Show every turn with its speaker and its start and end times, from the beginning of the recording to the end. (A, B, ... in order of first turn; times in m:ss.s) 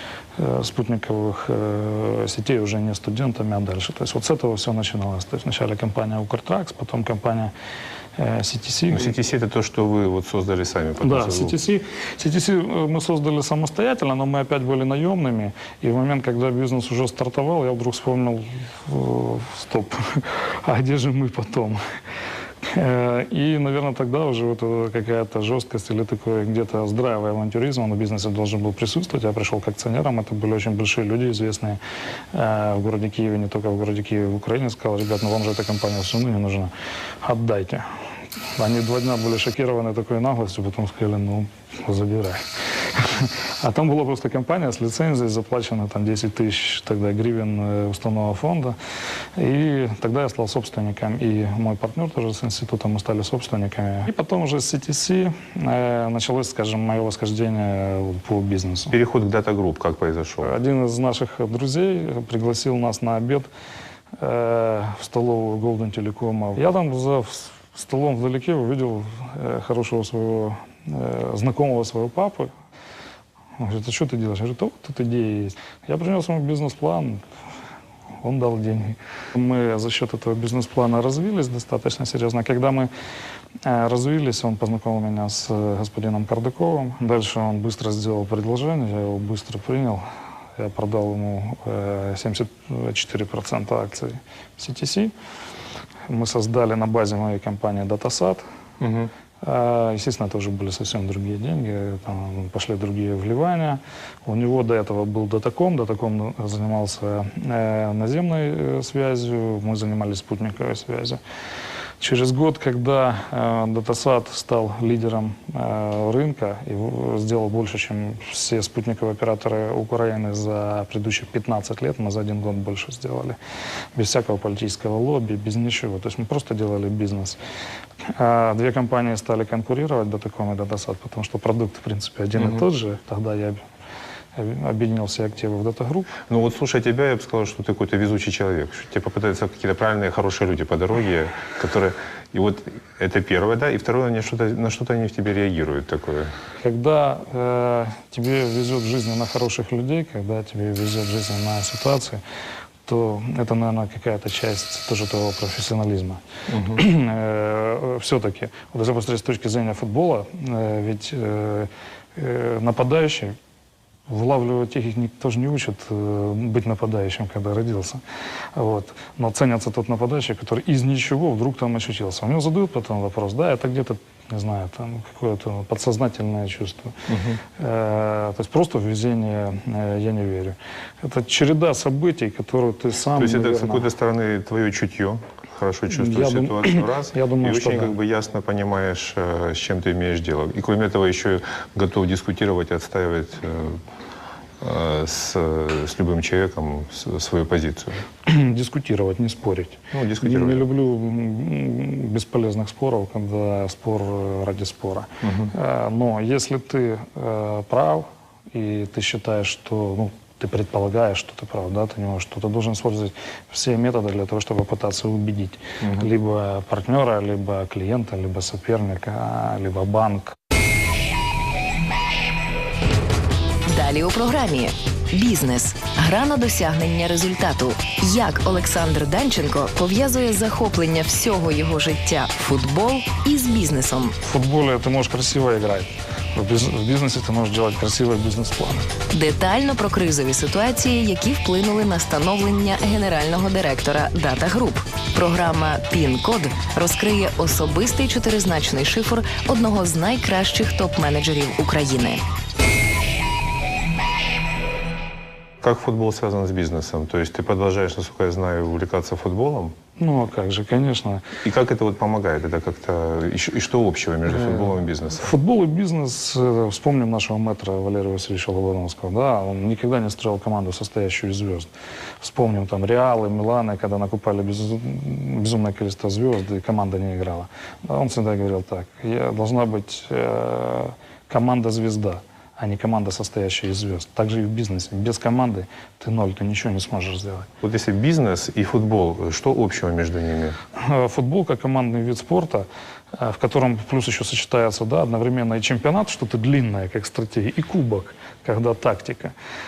0:00.4-0:07.5 A
0:08.2-0:09.1 A
0:08.9-0:11.6 B
0:11.0-0:21.8 A
0:22.6-0:31.8 A
0:32.3-0:37.8 A
0:38.6-0:48.8 A
0:49.4-0:58.9 A
0:58.9-1:00.5 B
1:00.4-1:03.5 A
1:04.2-1:12.5 A
1:13.6-1:17.2 A
1:18.2-1:22.9 A
1:23.6-1:30.0 A
1:30.6-1:35.1 A
1:36.1-1:38.4 A
1:38.8-1:39.1 B
1:39.4-1:51.2 A
1:52.0-2:03.4 A
2:03.9-2:07.4 A
2:08.1-2:13.6 A
2:14.4-2:16.1 A
2:16.3-2:26.3 B
2:26.6-2:32.2 A
2:32.8-2:43.4 A
2:36.5-2:36.8 B
2:44.1-2:48.0 A
2:48.5-2:57.0 A
2:57.1-2:57.4 B
2:57.6-3:03.9 A
3:03.1-3:13.8 B
3:05.9-3:07.9 A
3:14.6-3:18.0 B
3:18.2-3:40.4 A
3:19.9-3:20.7 B
3:25.2-3:25.5 B
3:35.8-3:36.1 B
3:43.6-3:54.2 C
3:54.2-3:58.9 A
3:59.1-4:12.2 C
4:15.6-4:19.7 B
4:20.0-4:21.2 A
4:21.4-4:25.3 B
4:24.4-4:31.7 A
4:32.2-4:47.5 A
4:47.6-4:50.6 B
4:50.8-4:59.3 A